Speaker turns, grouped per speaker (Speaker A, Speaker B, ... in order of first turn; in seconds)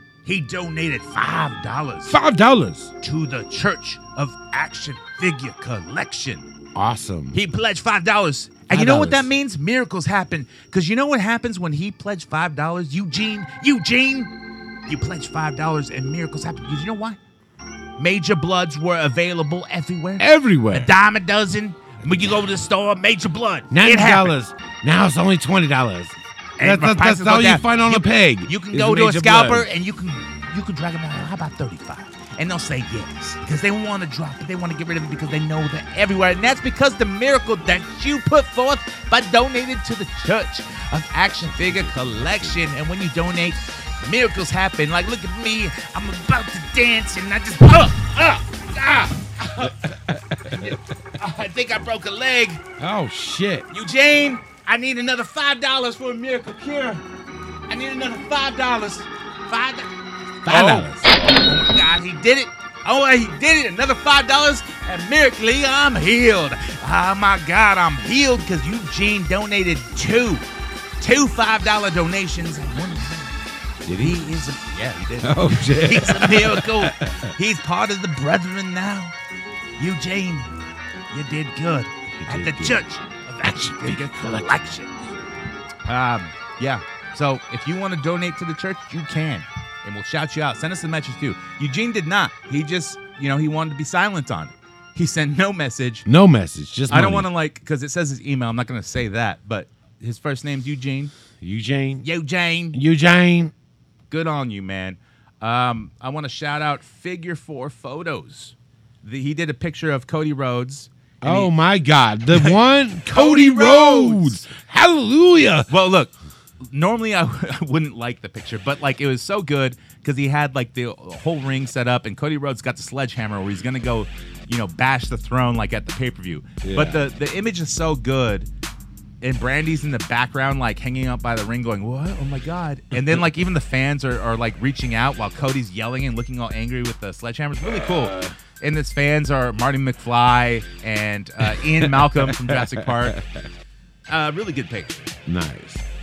Speaker A: 0.2-2.2, 3.0-6.5, 7.3-14.3, 14.9-17.2, 18.0-24.3, 26.6-52.6, 53.7-57.0, 57.7-59.9, 60.5-70.5, 71.0-73.4, 74.0-79.1, 79.8-80.5, 81.1-84.9, 85.9-96.1, 96.9-101.1, 102.0-102.8, 104.1-111.5, 112.3-112.6, 113.1-114.5, 115.7-128.5, 129.2-143.2, 144.1-145.1
Speaker B: 2.1-2.9, 6.8-7.4, 8.7-9.3, 20.2-20.9, 23.7-29.7, 41.5-42.6, 49.6-50.8, 52.8-53.7, 60.4-61.1, 73.8-74.2, 75.2-77.3, 82.2-82.8, 83.4-84.7, 96.1-97.3, 101.4-102.1, 102.7-103.5, 111.2-115.7, 126.6-127.0, 137.7-138.3, 141.4-143.4, 145.3-145.8